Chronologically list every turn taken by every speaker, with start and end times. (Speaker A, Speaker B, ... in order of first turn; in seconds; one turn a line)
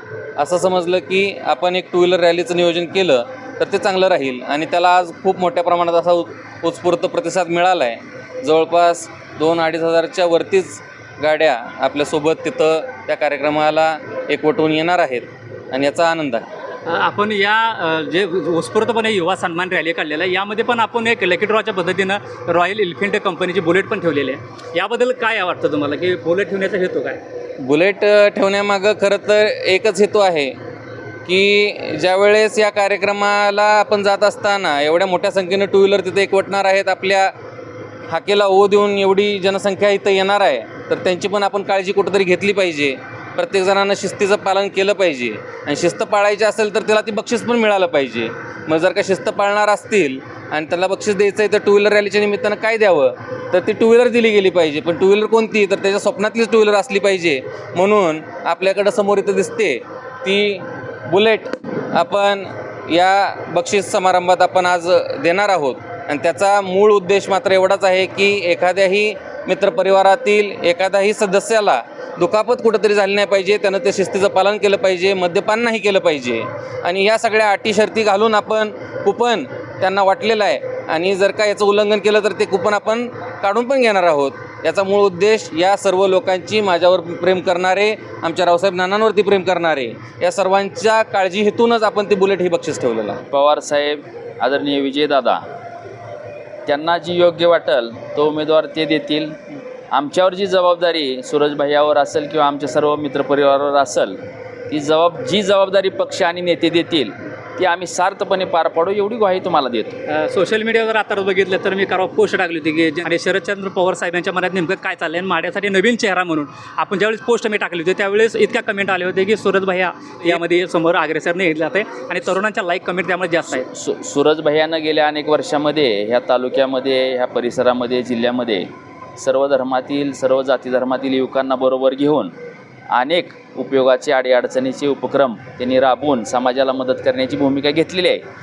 Speaker A: 0.4-16.5
Speaker B: 16.9-27.2
Speaker A: 27.6-30.5
Speaker A: 31.3-37.3
Speaker A: 38.1-93.2
Speaker C: 93.3-95.4
Speaker C: 96.7-99.4
Speaker C: 99.9-104.2
Speaker C: 104.7-110.0
Speaker B: 110.1-123.7
Speaker C: 123.6-132.3
Speaker C: 132.9-138.2